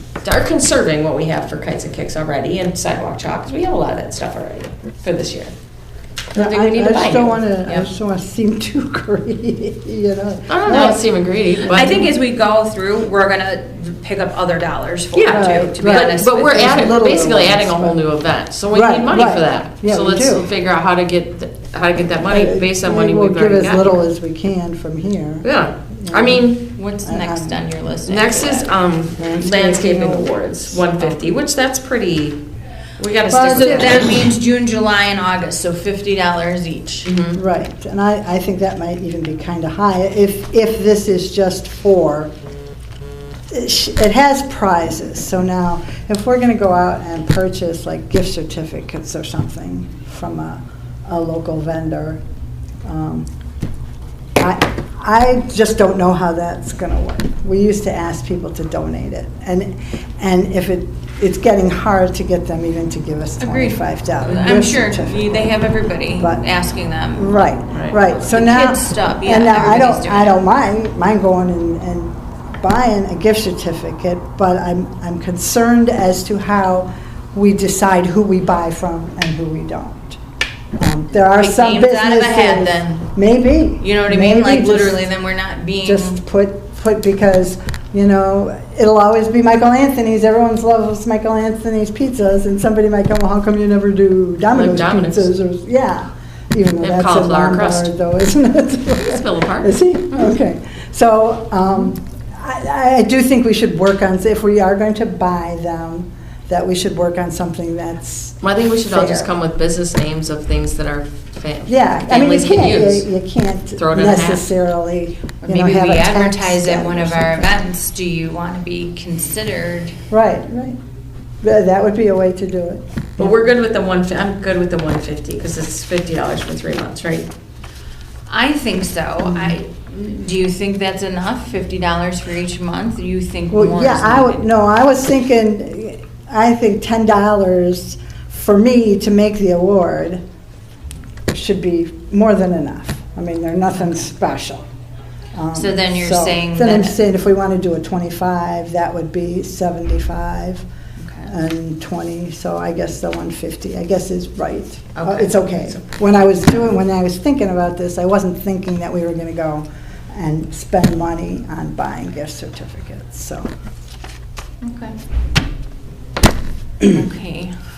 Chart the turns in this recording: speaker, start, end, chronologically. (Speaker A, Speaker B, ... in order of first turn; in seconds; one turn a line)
Speaker A: 0.2-5.5
Speaker A: 6.3-7.4
Speaker B: 6.3-11.0
Speaker A: 10.5-12.0
Speaker C: 10.7-11.0
Speaker C: 11.6-16.9
Speaker A: 15.1-23.9
Speaker B: 15.3-18.0
Speaker B: 18.7-20.5
Speaker B: 22.2-26.5
Speaker A: 25.4-26.7
Speaker C: 26.7-28.7
Speaker B: 27.0-27.6
Speaker A: 28.0-32.4
Speaker B: 29.2-31.0
Speaker A: 33.0-34.1
Speaker B: 33.3-34.1
Speaker C: 33.3-37.1
Speaker A: 37.0-37.4
Speaker B: 37.3-42.3
Speaker B: 43.5-52.2
Speaker B: 52.8-53.2
Speaker B: 54.4-65.6
Speaker C: 63.4-67.5
Speaker B: 66.1-66.4
Speaker B: 67.1-80.2
Speaker C: 68.1-70.4
Speaker B: 80.8-85.0
Speaker C: 81.3-83.1
Speaker C: 83.8-86.2
Speaker B: 85.8-109.3
Speaker A: 94.5-95.3
Speaker A: 96.8-97.9
Speaker A: 99.0-99.8
Speaker A: 108.4-113.1
Speaker B: 111.7-117.6
Speaker A: 113.8-114.5
Speaker C: 115.4-119.9
Speaker B: 120.1-120.8
Speaker B: 121.4-122.8
Speaker A: 123.2-127.3
Speaker C: 128.3-134.4
Speaker B: 129.2-129.5
Speaker B: 133.5-140.2
Speaker B: 141.3-144.6
Speaker B: 145.3-150.6
Speaker C: 145.5-147.0
Speaker C: 151.0-151.3
Speaker B: 151.3-163.5
Speaker A: 155.0-155.8
Speaker C: 164.6-164.9
Speaker C: 166.8-167.5